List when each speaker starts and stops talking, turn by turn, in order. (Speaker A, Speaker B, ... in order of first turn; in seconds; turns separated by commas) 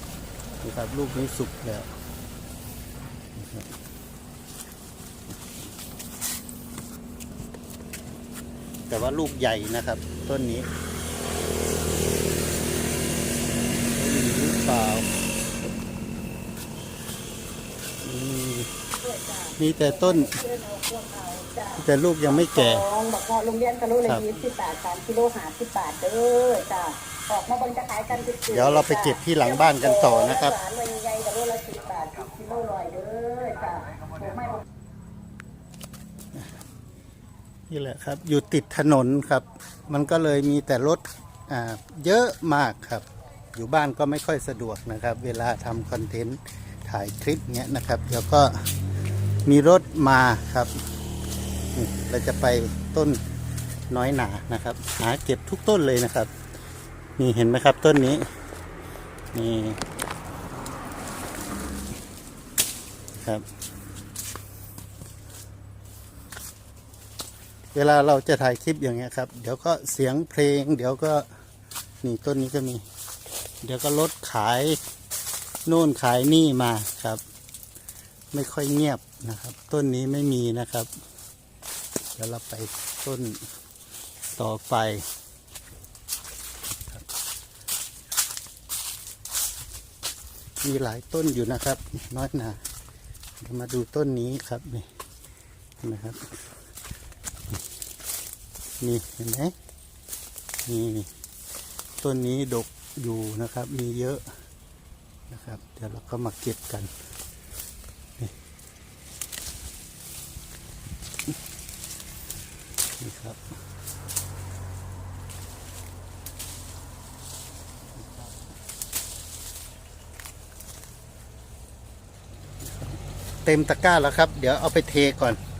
Speaker A: 0.6-1.9, Speaker A: 3.4-3.7, Speaker A: 8.9-10.7, Speaker A: 13.9-15.1, Speaker A: 18.0-18.7, Speaker B: 19.1-19.6, Speaker A: 19.6-20.4, Speaker B: 20.3-21.7, Speaker A: 21.7-22.9, Speaker B: 22.8-28.5, Speaker A: 24.1-24.4, Speaker A: 28.4-30.6, Speaker B: 30.5-34.6, Speaker A: 37.7-48.6, Speaker A: 49.5-50.7, Speaker A: 51.7-53.2, Speaker A: 53.9-56.3, Speaker A: 57.2-58.3, Speaker A: 59.3-59.8, Speaker A: 63.2-63.4, Speaker A: 67.7-71.3, Speaker A: 72.0-72.8, Speaker A: 73.6-74.8, Speaker A: 75.7-77.2, Speaker A: 78.3-80.9, Speaker A: 82.1-83.4, Speaker A: 84.3-85.0, Speaker A: 90.6-92.6, Speaker A: 93.4-94.9, Speaker A: 95.8-96.3, Speaker A: 98.8-99.5, Speaker A: 100.7-101.1, Speaker A: 102.0-104.2, Speaker A: 105.3-106.9, Speaker A: 113.0-113.4, Speaker A: 118.0-118.3, Speaker A: 122.6-125.4